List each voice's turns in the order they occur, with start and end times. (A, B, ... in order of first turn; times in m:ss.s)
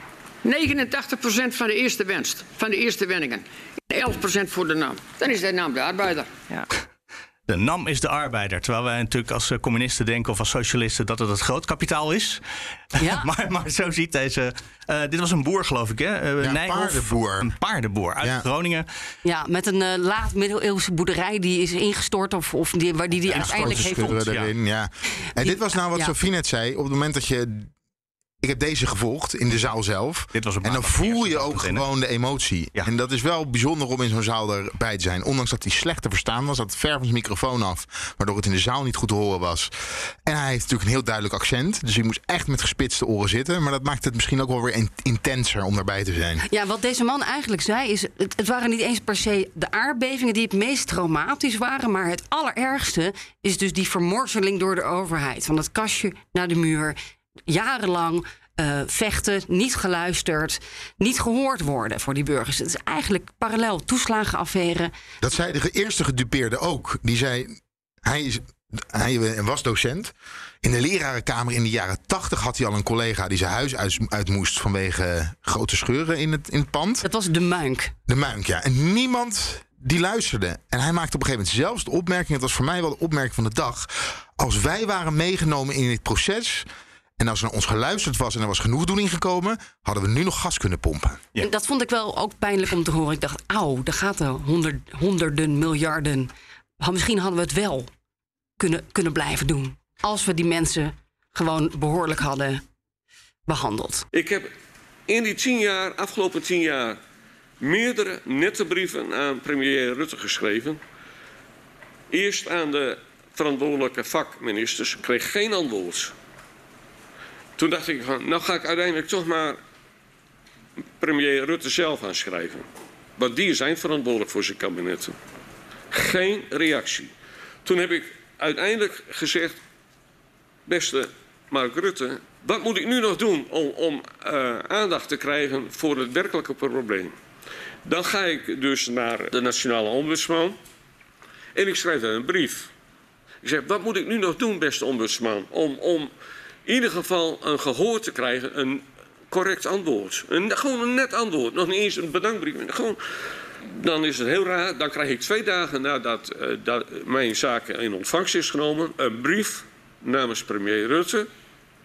0:00.4-0:06.3 A
0:07.5-0:12.4 B
0:12.9-0:18.9 B
0:13.0-0:13.3 C
0:16.4-0:17.5 D
0:19.2-0:24.2 C
0:23.3-0:24.5 B
0:23.3-0:27.7 D
0:25.4-0:26.1 C
0:28.4-0:39.7 D
0:30.3-0:31.8 B
0:40.2-0:46.4 D
0:46.4-1:04.9 C
1:05.2-1:17.0 D
1:17.0-1:17.9 C
1:18.1-1:26.7 D
1:27.2-1:31.2 D
1:31.4-1:37.9 C
1:38.6-1:42.6 C
1:43.5-1:44.0 C
1:44.1-1:44.5 E
1:45.1-1:47.0 E
1:47.6-1:50.8 E
1:52.1-1:56.1 E
1:57.6-1:59.6 E
2:01.0-2:02.6 E
2:03.2-2:05.2 E
2:05.9-2:07.1 E
2:07.6-2:09.6 E
2:10.7-2:17.1 E
2:17.8-2:20.6 E
2:21.5-2:22.7 E
2:23.4-2:26.1 E
2:26.6-2:33.0 E
2:33.8-2:41.3 E